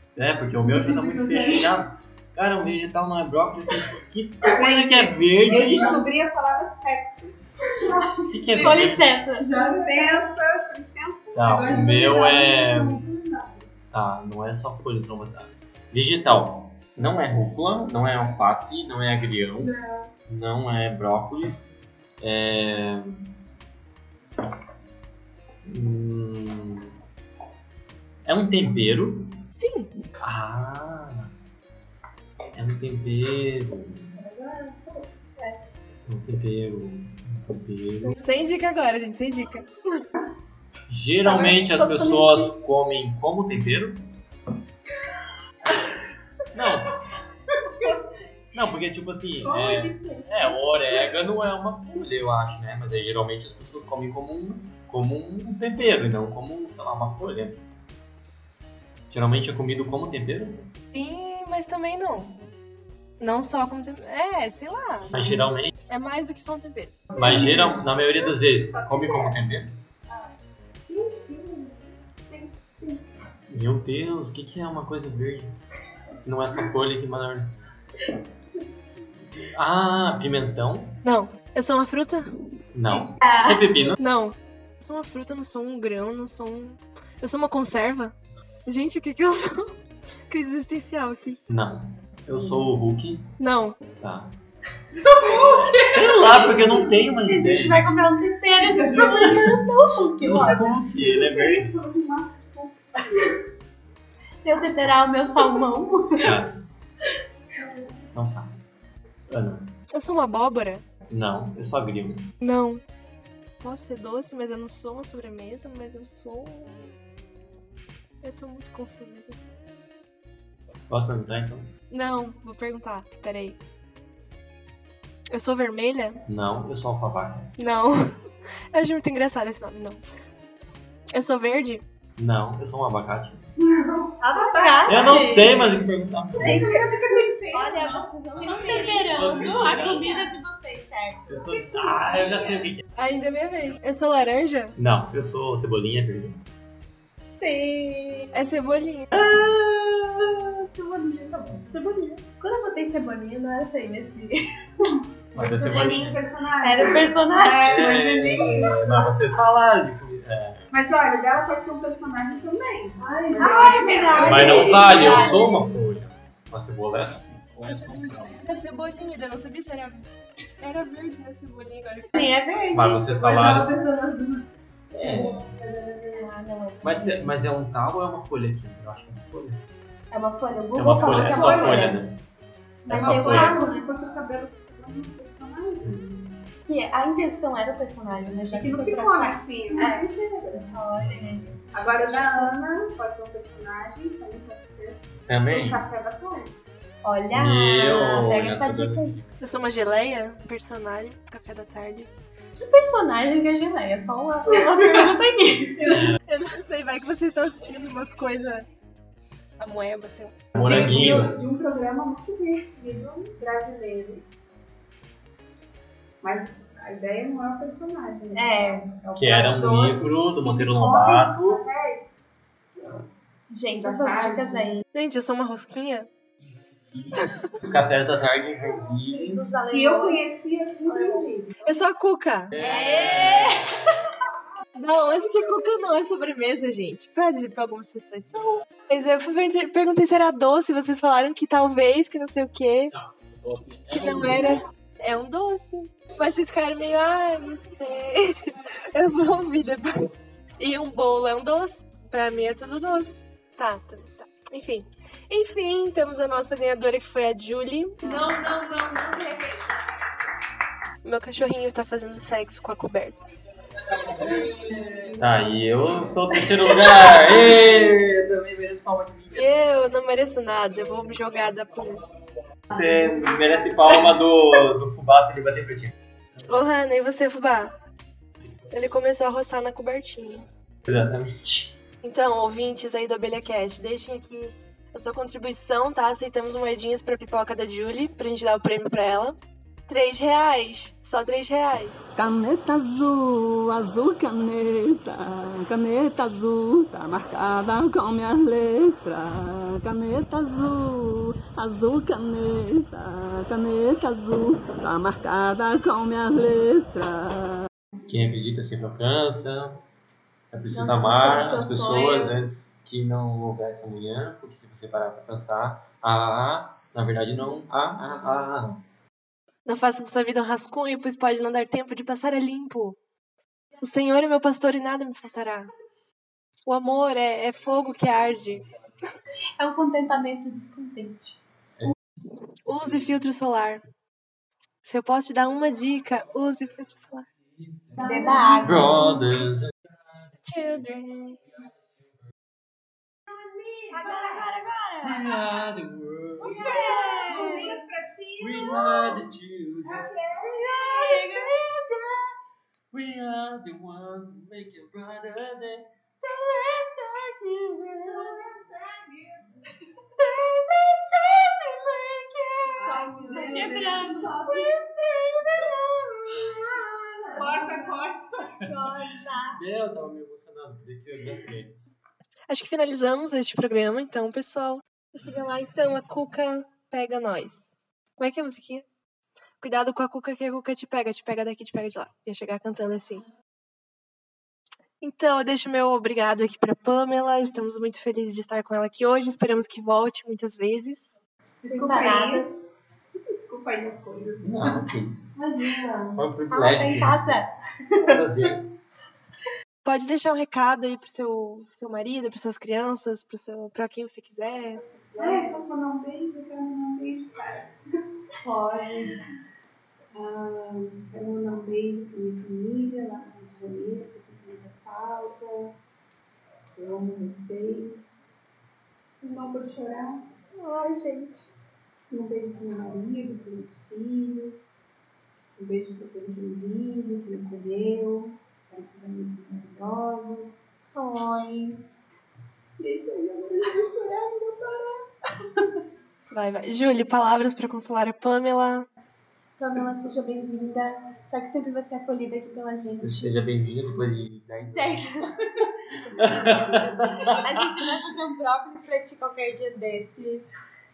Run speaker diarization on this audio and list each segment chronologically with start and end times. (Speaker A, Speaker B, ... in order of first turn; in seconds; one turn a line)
Speaker A: 0.2-6.0
Speaker B: 0.6-1.7
Speaker B: 4.4-13.7
Speaker A: 8.3-9.1
Speaker C: 8.6-10.2
Speaker A: 11.3-13.1
Speaker A: 13.9-19.7
Speaker B: 19.6-20.1
Speaker A: 20.3-23.2
Speaker A: 25.6-26.9
Speaker A: 28.3-29.4
Speaker D: 29.6-30.0
Speaker A: 30.2-31.3
Speaker A: 32.5-34.2
Speaker B: 34.2-35.0
Speaker A: 36.1-38.2
Speaker D: 38.2-40.0
Speaker A: 40.9-44.1
Speaker C: 41.2-42.5
Speaker A: 46.5-46.9
Speaker A: 48.5-57.6
Speaker B: 49.4-50.6
Speaker A: 59.1-60.6
Speaker D: 60.9-62.4
Speaker D: 63.2-65.2
Speaker A: 65.1-65.7
Speaker D: 65.9-67.0
Speaker B: 67.1-69.3
Speaker A: 67.1-69.8
Speaker B: 70.1-73.0
Speaker A: 73.5-75.5
Speaker A: 76.2-77.5
Speaker A: 79.4-81.0
Speaker D: 81.0-82.3
Speaker A: 82.7-84.0
Speaker B: 82.9-83.2
Speaker C: 83.2-83.6
Speaker D: 84.0-88.2
Speaker D: 88.7-89.7
Speaker D: 90.3-91.4
Speaker A: 91.5-93.3
Speaker D: 93.4-93.8
Speaker A: 94.0-94.3
Speaker B: 94.9-96.8
Speaker A: 95.3-97.9
Speaker C: 97.2-100.7
Speaker B: 98.6-99.6
Speaker A: 100.2-101.7
Speaker B: 100.9-103.3
Speaker C: 104.4-106.3
Speaker B: 105.5-105.8
Speaker A: 106.2-106.6
Speaker A: 108.1-108.6
Speaker A: 109.3-109.8
Speaker D: 109.9-110.8
Speaker A: 111.1-112.3
Speaker D: 112.4-112.8
Speaker D: 113.6-117.0
Speaker D: 118.2-119.4
Speaker A: 120.9-121.7
Speaker D: 121.9-123.6
Speaker D: 125.3-126.2
Speaker A: 126.3-127.5
Speaker D: 127.6-128.1
Speaker D: 128.7-130.0
Speaker D: 131.1-131.8
Speaker A: 132.2-133.5
Speaker B: 133.6-135.2
Speaker C: 134.2-135.7
Speaker A: 134.9-136.8
Speaker B: 136.3-140.3
Speaker C: 137.5-141.3
Speaker A: 138.6-140.0
Speaker A: 141.3-142.8
Speaker B: 141.5-142.7
Speaker D: 143.0-144.8
Speaker A: 144.8-146.4
Speaker C: 147.4-148.3
Speaker D: 148.3-149.1
Speaker C: 149.2-149.7
Speaker B: 150.7-151.6
Speaker C: 151.7-154.4
Speaker B: 155.3-159.1
Speaker A: 155.3-156.2
Speaker C: 156.6-158.0
Speaker A: 157.6-160.7
Speaker B: 160.7-165.5
Speaker C: 163.0-165.7
Speaker A: 164.2-168.3
Speaker D: 167.7-170.1
Speaker D: 170.6-172.2
Speaker C: 172.1-173.7
Speaker A: 172.7-173.8
Speaker B: 173.4-174.4
Speaker B: 174.9-176.3
Speaker A: 175.0-175.5
Speaker C: 176.1-177.3
Speaker A: 176.8-179.6
Speaker C: 180.1-182.0
Speaker A: 180.8-182.2
Speaker B: 181.0-182.0
Speaker C: 182.8-183.9
Speaker A: 182.9-183.6
Speaker B: 182.9-186.0
Speaker A: 185.8-186.4
Speaker C: 186.6-192.6
Speaker B: 188.5-190.8
Speaker A: 191.0-191.7
Speaker B: 191.7-196.6
Speaker A: 195.2-195.8
Speaker C: 197.0-199.2
Speaker A: 197.3-199.3
Speaker D: 199.4-202.1
Speaker C: 202.6-206.1
Speaker D: 206.3-208.7
Speaker D: 209.6-210.5
Speaker A: 210.5-211.4
Speaker B: 210.6-214.3
Speaker B: 216.2-222.2
Speaker C: 218.3-218.9
Speaker A: 219.2-221.6
Speaker C: 223.5-224.8
Speaker B: 223.7-224.7
Speaker D: 224.9-226.1
Speaker D: 227.2-227.5
Speaker A: 227.6-229.5
Speaker C: 229.1-231.4
Speaker B: 229.7-231.8
Speaker D: 231.7-232.6
Speaker A: 232.5-233.6
Speaker C: 232.6-233.8
Speaker D: 234.8-243.0
Speaker A: 243.6-243.8
Speaker D: 243.9-258.2
Speaker B: 258.1-259.5
Speaker C: 258.1-258.8
Speaker D: 261.0-263.2
Speaker A: 265.2-269.6
Speaker D: 269.4-272.0
Speaker A: 272.7-275.9
Speaker D: 276.4-277.7
Speaker D: 278.7-280.5
Speaker A: 280.9-281.8
Speaker D: 282.0-289.4
Speaker D: 289.9-292.0
Speaker E: 292.2-307.6
Speaker A: 308.1-309.8
Speaker A: 310.5-318.8
Speaker C: 310.7-312.4
Speaker D: 319.6-323.0
Speaker D: 323.8-325.7
Speaker D: 326.7-328.7
Speaker C: 329.6-331.4
Speaker D: 332.7-333.8
Speaker D: 334.8-337.3
Speaker B: 338.0-338.6
Speaker C: 338.0-338.9
Speaker A: 338.6-339.7
Speaker D: 340.4-341.4
Speaker B: 343.3-344.5
Speaker C: 343.9-345.4
Speaker A: 345.0-347.1
Speaker B: 346.4-349.2
Speaker C: 346.5-347.8
Speaker A: 348.4-350.1
Speaker B: 349.8-351.2
Speaker C: 350.4-351.9
Speaker A: 350.7-352.2
Speaker A: 352.9-358.3
Speaker C: 356.3-358.0
Speaker B: 358.0-359.4
Speaker C: 360.2-367.9
Speaker B: 362.7-364.8
Speaker A: 363.6-364.1
Speaker B: 367.3-368.4
Speaker A: 368.6-368.9
Speaker C: 368.6-369.6
Speaker A: 369.5-371.8
Speaker D: 372.5-378.9
Speaker D: 379.6-383.3
Speaker D: 385.0-391.1
Speaker B: 391.6-392.5
Speaker C: 391.7-392.5
Speaker B: 393.3-394.9
Speaker A: 394.4-395.3
Speaker C: 395.4-398.2
Speaker A: 396.1-397.4
Speaker A: 398.0-398.6
Speaker D: 399.8-404.8
Speaker B: 404.8-407.7
Speaker C: 405.2-405.6
Speaker C: 408.4-409.1
Speaker B: 410.1-415.8
Speaker B: 416.8-418.1
Speaker B: 419.2-420.2
Speaker C: 420.6-421.5
Speaker B: 422.1-424.8
Speaker B: 425.6-430.7
Speaker C: 430.9-431.8
Speaker B: 432.8-435.1
Speaker D: 436.3-438.9
Speaker C: 439.6-443.3
Speaker A: 442.9-445.1
Speaker C: 444.7-445.3
Speaker A: 446.2-447.7
Speaker C: 447.4-450.4